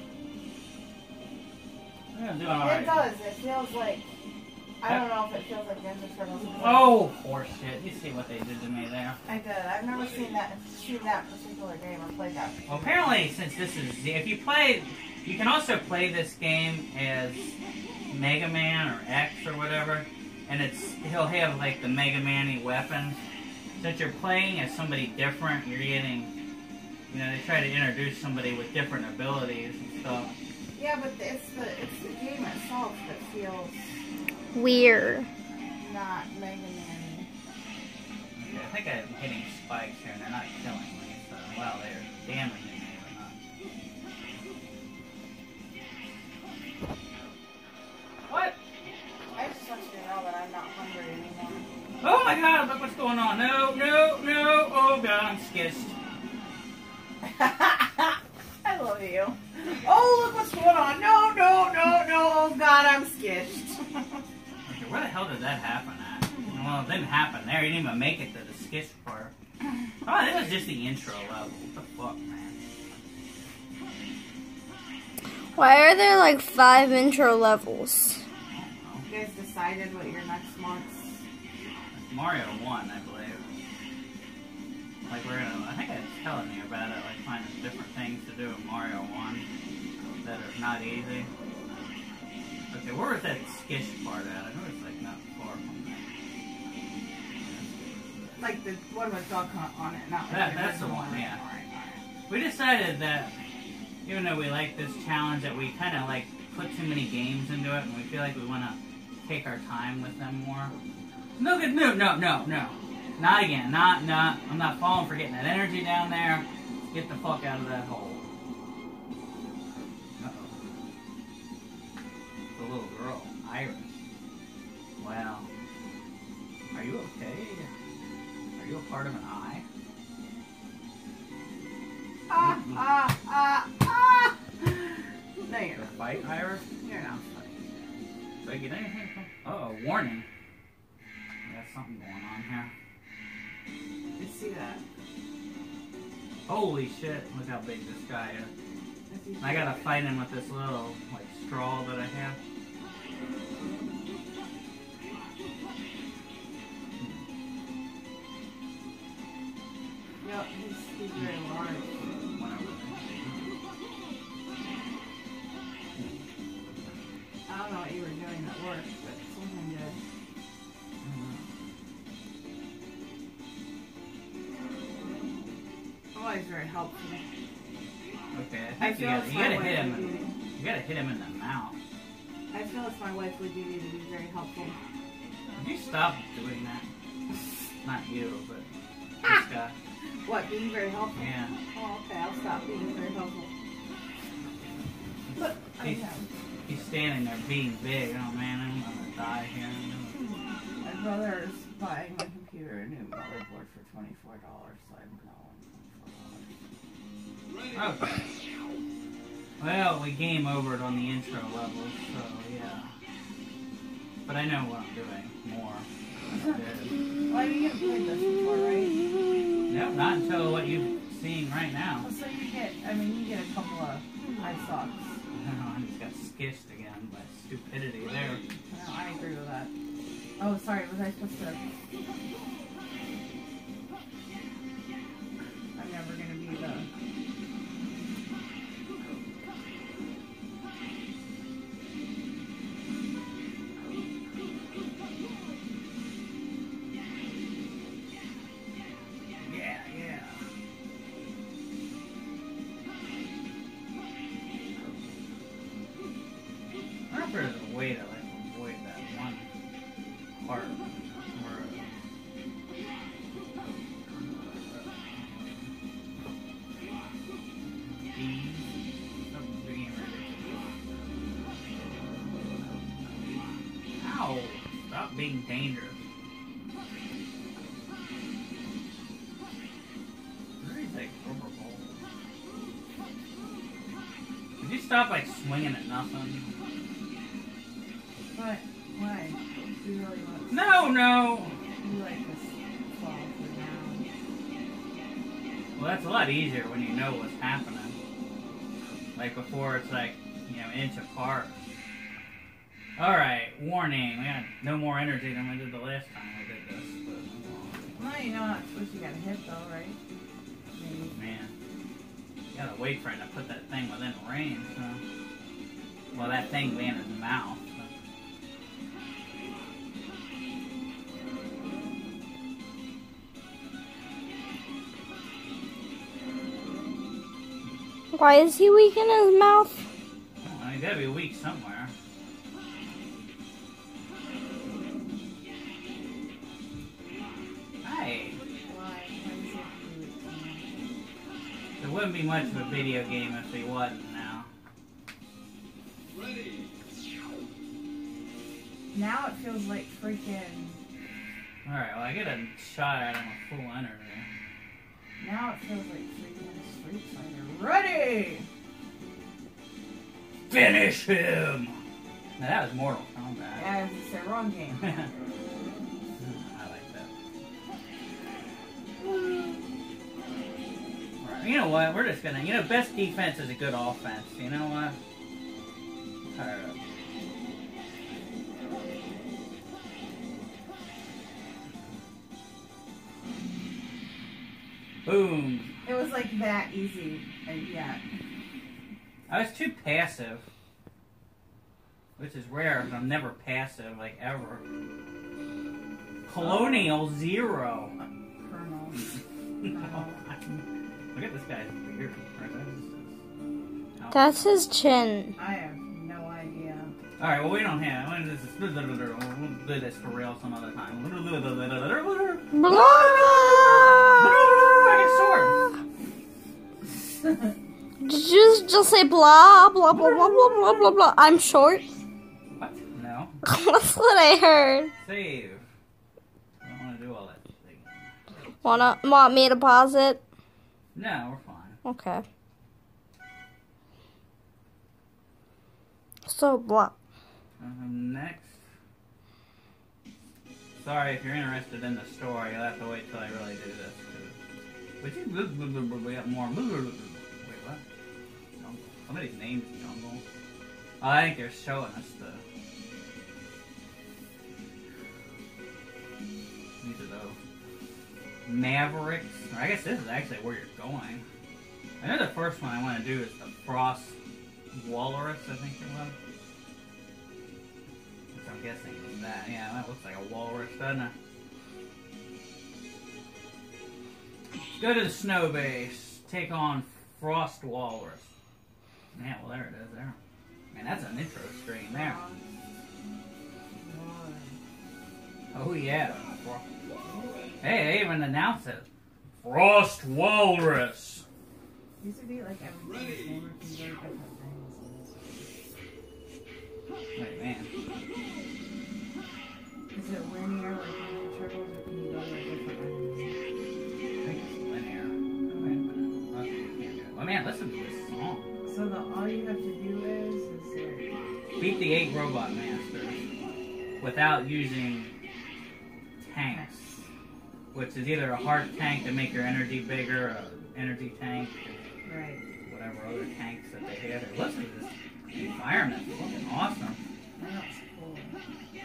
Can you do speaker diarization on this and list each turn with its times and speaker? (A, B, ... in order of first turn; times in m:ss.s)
0:02.1-0:03.1 A
0:02.6-0:04.1 B
0:04.8-0:07.0 B
0:06.6-0:09.2 A
0:09.2-0:13.2 B
0:12.7-0:17.6 A
0:18.1-0:23.2 A
0:23.8-0:26.3 A
0:27.1-0:30.3 A
0:30.8-0:34.0 B
0:34.5-0:35.3 C
0:35.8-0:37.3 B
0:38.3-0:43.4 A
0:48.3-0:48.6 A
0:49.3-0:51.7 B
0:52.0-0:56.0 A
0:57.2-1:04.2 B
1:04.7-1:09.4 A
1:10.0-1:12.6 A
1:15.6-1:18.2 C
1:18.5-1:19.1 A
1:19.1-1:21.2 B
1:21.9-1:23.4 A
1:25.1-1:29.4 A
1:30.2-1:31.3 A
1:32.7-1:36.0 A
1:37.4-1:38.5 A
1:38.4-1:42.0 B
1:40.3-1:41.4 A
1:42.3-1:43.4 A
1:44.0-1:50.7 A
1:51.4-1:58.3 A
2:00.2-2:00.6 A
2:02.6-2:03.9 A
2:05.0-2:05.5 A
2:06.7-2:07.7 A
2:08.6-2:09.6 A
2:12.3-2:15.9 B
2:12.4-2:12.8 A
2:15.7-2:16.7 A
2:16.8-2:17.6 B
2:18.4-2:20.2 A
2:21.4-2:22.7 A
2:24.2-2:24.8 B
2:26.4-2:28.5 A
2:29.1-2:30.0 B
2:29.4-2:32.4 A
2:37.0-2:37.2 A
2:40.2-2:42.2 B
2:42.4-2:43.6 A
2:45.9-2:46.2 A
2:47.5-2:50.0 B
2:51.0-2:51.5 A
2:56.1-2:57.2 B
2:58.3-3:01.8 A
2:58.8-3:00.4 B
3:02.5-3:04.8 B
3:05.6-3:08.7 A
3:09.2-3:09.8 A
3:10.2-3:13.5 B
3:11.2-3:11.6 A
3:15.3-3:16.1 A
3:15.4-3:16.3 B
3:16.7-3:20.2 A
3:20.8-3:26.6 B
3:27.7-3:28.3 A
3:29.6-3:32.9 A
3:34.2-3:37.0 A
3:37.3-3:39.0 B
3:39.7-3:42.1 A
3:42.0-3:45.2 B
3:45.3-3:48.4 A
3:48.7-3:49.7 B
3:50.4-3:51.7 B
3:55.8-3:56.9 B
4:09.4-4:10.4 A
4:17.1-4:19.5 A
4:20.4-4:21.8 A
4:24.1-4:25.7 A
4:28.1-4:28.7 A
4:29.3-4:30.7 A
4:34.0-4:36.0 A
4:40.6-4:42.0 A
4:44.6-4:46.5 A
4:48.3-4:50.6 B
4:50.5-4:51.6 A
4:51.8-4:54.1 B
4:55.8-4:58.0 A
4:59.1-5:01.6 A
5:03.0-5:07.9 A
5:07.9-5:10.0 B
5:10.8-5:11.2 B
5:11.1-5:11.5 A
5:12.5-5:15.0 A
5:16.1-5:17.9 A
5:28.1-5:29.9 C
5:30.4-5:31.9 A
5:37.8-5:38.4 A
5:38.7-5:40.9 B
5:41.8-5:44.5 A
5:48.9-5:50.8 B
5:51.6-5:54.3 A
5:55.2-5:58.5 B
6:00.5-6:01.8 A
6:02.4-6:03.7 A
6:03.6-6:04.9 B
6:04.8-6:05.1 A
6:06.2-6:07.1 A
6:09.0-6:09.6 B
6:11.2-6:15.0 A
6:16.3-6:16.8 A
6:25.0-6:25.8 A
6:25.8-6:28.0 B
6:29.3-6:30.4 A
6:32.2-6:34.6 A
6:36.3-6:37.9 A
6:36.4-6:37.0 B
6:38.4-6:39.2 B
6:39.6-6:43.2 A
6:39.7-6:40.2 B
6:44.0-6:44.3 A
6:44.1-6:45.4 C
6:45.4-6:46.9 B
6:47.2-6:53.3 A
6:52.5-6:54.6 C
6:54.1-6:55.7 A
6:58.0-7:02.0 C
7:02.5-7:03.4 A
7:03.4-7:04.9 C
7:05.0-7:05.6 A
7:06.6-7:08.0 A
7:08.6-7:10.2 C
7:10.9-7:11.8 A
7:11.8-7:12.2 C
7:16.3-7:16.9 C
7:17.6-7:18.6 A
7:20.8-7:24.4 A
7:25.0-7:27.8 A
7:28.6-7:30.2 A
7:31.0-7:32.4 A
7:36.8-7:37.4 A
7:38.4-7:41.2 A
7:42.0-7:44.2 A
7:44.7-7:46.2 A
7:48.3-7:51.1 A
7:54.8-7:58.3 A
7:59.2-8:00.2 A
8:00.7-8:02.2 A
8:01.9-8:02.4 B
8:03.8-8:04.6 B
8:05.5-8:06.6 A
8:07.6-8:08.9 A
8:09.4-8:11.2 A
8:12.0-8:15.7 B
8:17.2-8:17.7 A
8:19.9-8:23.4 B
8:24.2-8:28.5 A
8:25.5-8:25.8 B
8:28.6-8:31.1 B
8:31.6-8:33.2 A
8:34.0-8:35.1 A
8:36.2-8:36.9 A
8:36.5-8:37.0 B
8:37.7-8:41.8 A
8:42.0-8:42.4 B
8:42.6-8:47.0 A
8:47.4-8:48.4 B